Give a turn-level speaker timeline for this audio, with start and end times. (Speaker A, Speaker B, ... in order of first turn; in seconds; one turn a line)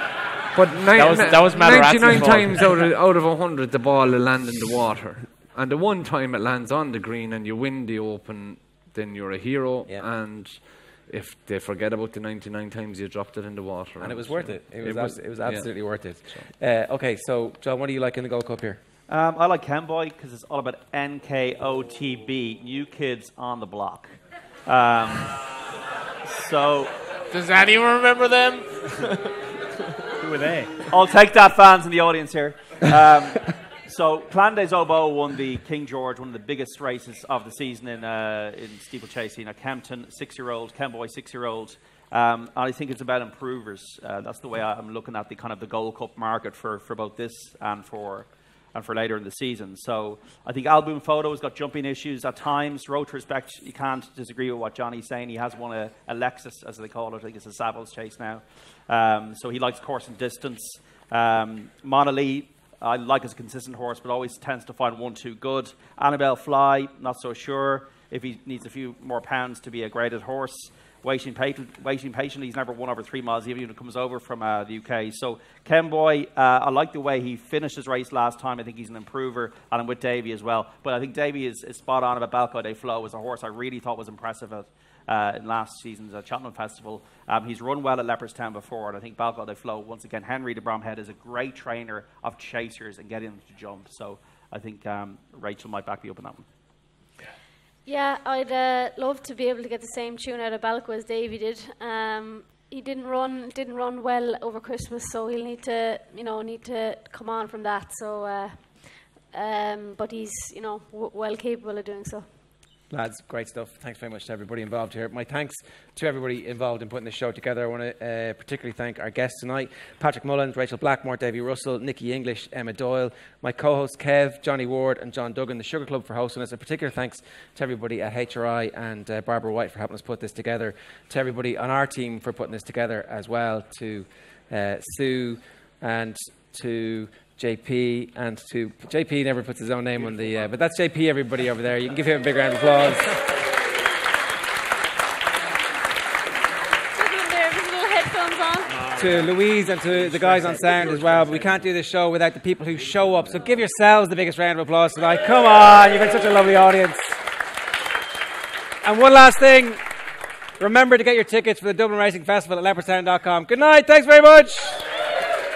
Speaker A: 0.5-16.5
Speaker B: 0.9-2.9
Speaker C: 14.0-18.8
Speaker D: 19.1-24.1
Speaker D: 24.7-25.4
Speaker D: 26.2-26.9
Speaker B: 27.3-29.4
Speaker E: 30.2-30.9
Speaker D: 30.9-96.5
Speaker F: 97.9-112.3
Speaker C: 112.9-143.1
Speaker F: 146.9-148.9
Speaker E: 148.9-149.3
Speaker C: 148.9-157.2
Speaker E: 150.3-151.5
Speaker C: 158.8-159.8
Speaker C: 160.6-164.9